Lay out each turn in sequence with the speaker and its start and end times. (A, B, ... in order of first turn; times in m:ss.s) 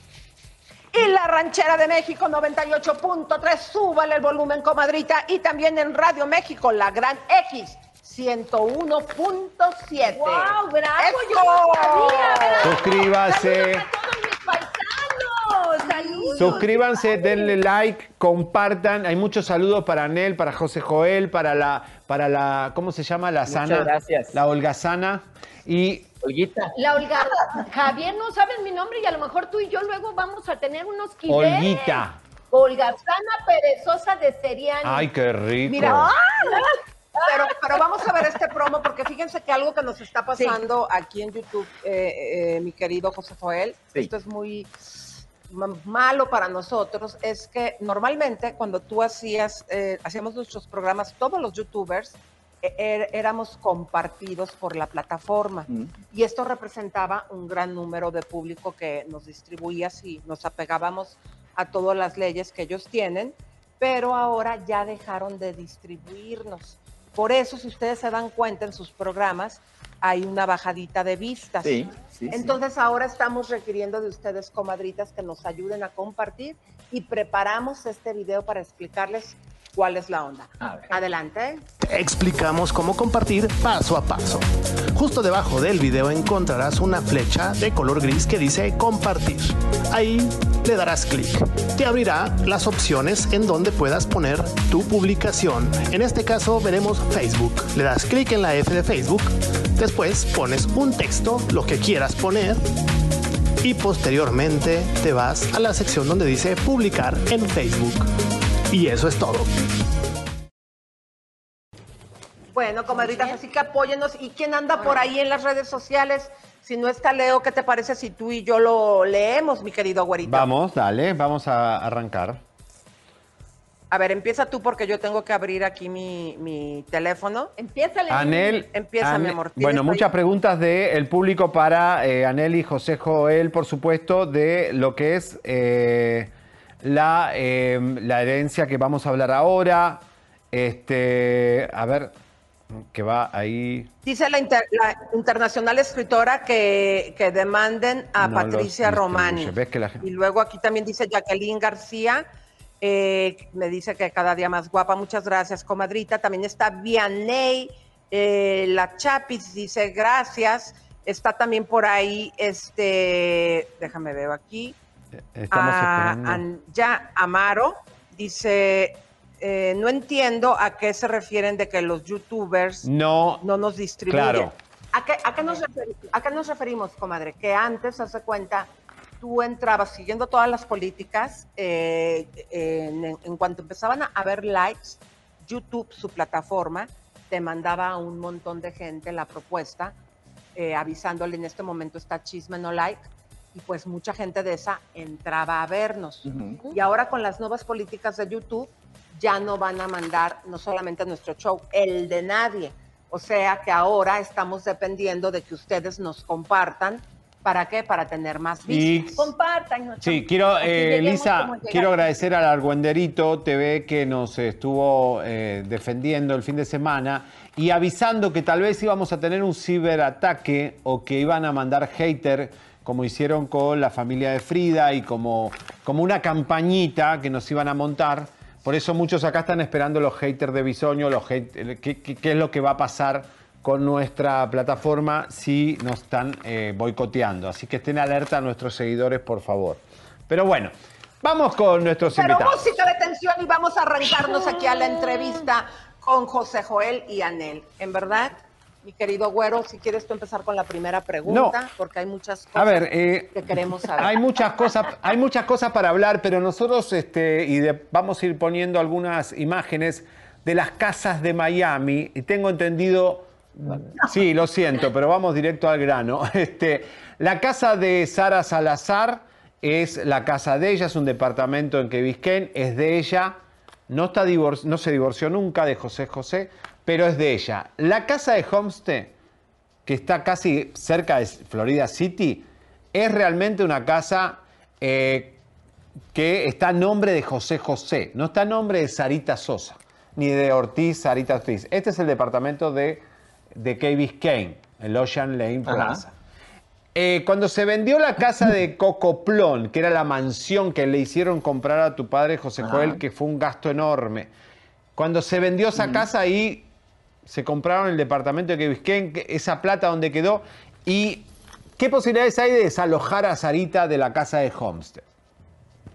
0:00.9-0:12.7 A
0:10.0-0:17.6 B
0:12.6-0:13.9 C
0:16.1-0:16.4 A
0:16.4-0:26.1 C
0:23.5-0:24.4 D
0:26.2-0:26.7 D
0:26.8-0:35.1 B
0:31.3-0:32.2 C
0:34.8-0:36.1 C
0:35.6-0:38.2 B
0:35.7-0:36.1 A
0:37.3-1:21.6 A
0:40.4-0:40.6 B
1:11.6-1:12.6 D
1:20.6-1:20.9 D
1:21.8-1:42.6 E
1:43.6-1:48.1 E
1:48.7-1:49.5 E
1:52.5-2:00.5 A
1:52.9-1:53.4 B
1:54.8-1:55.0 B
2:00.2-2:02.4 C
2:03.9-2:07.5 A
2:07.6-2:08.6 B
2:08.1-2:16.3 C
2:08.7-2:10.1 A
2:16.8-2:22.1 C
2:22.7-2:23.9 C
2:24.0-2:32.2 A
2:28.2-2:30.1 C
2:32.8-2:44.8 A
2:45.3-2:46.4 C
2:45.5-2:52.9 A
2:52.8-2:53.4 C
2:53.4-2:58.7 A
2:54.1-2:54.5 C
2:59.2-3:10.0 A
3:10.6-3:29.3 A
3:16.2-3:16.6 D
3:28.7-3:29.3 C
3:28.7-3:32.0 B
3:30.0-4:02.6 C
4:02.2-4:14.2 A
4:11.2-4:11.6 C
4:12.6-4:13.4 C
4:14.0-4:33.4 C
4:33.9-4:39.1 C
4:39.9-4:45.4 C
4:46.1-4:56.1 C
4:55.7-4:56.0 D
4:56.9-5:04.3 C
5:02.6-5:03.0 D
5:05.0-5:06.7 C
5:05.8-5:06.0 D
5:07.3-5:15.0 C